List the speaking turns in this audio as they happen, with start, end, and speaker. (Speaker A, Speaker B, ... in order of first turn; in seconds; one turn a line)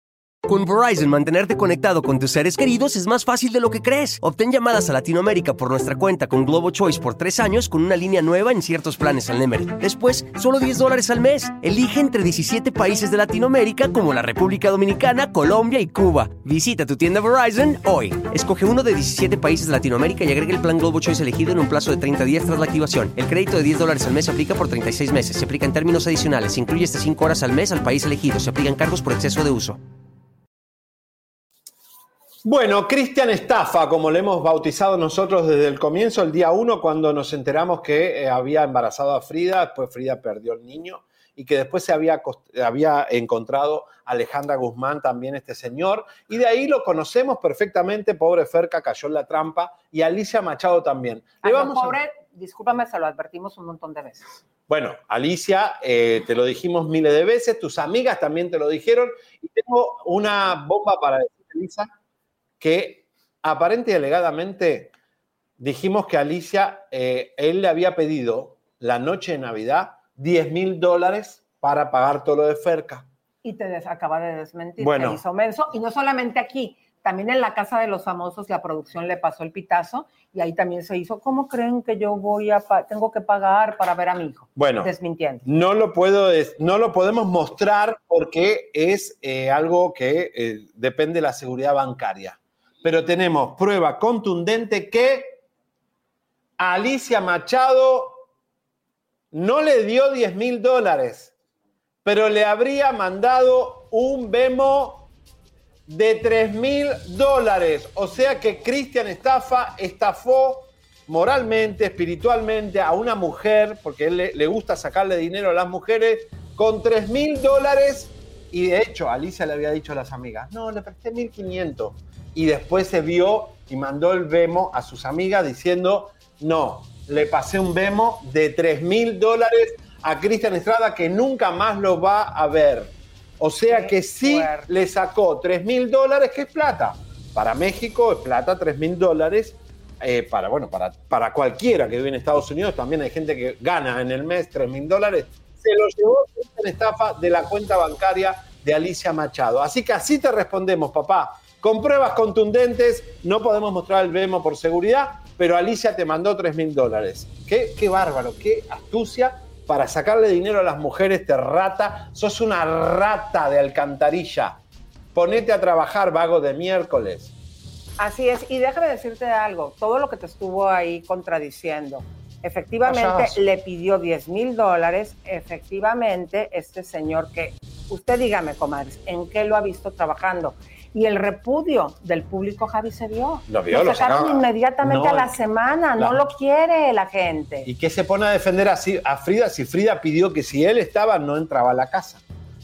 Speaker A: 0.5-29.8
Speaker B: 32.5-52.0
Speaker C: 51.4-54.4
Speaker B: 54.7-61.9
Speaker B: 62.6-64.9
Speaker B: 65.6-73.1
Speaker C: 73.4-85.5
Speaker B: 74.8-75.2
Speaker B: 84.6-84.9
Speaker B: 85.5-95.4
Speaker B: 96.6-98.2
Speaker B: 99.3-101.3
Speaker B: 102.0-105.1
Speaker B: 105.9-164.6
Speaker C: 133.7-134.7
Speaker B: 165.1-167.3
Speaker C: 168.0-187.7
Speaker B: 172.8-173.4
Speaker B: 183.5-185.3
Speaker B: 187.7-192.2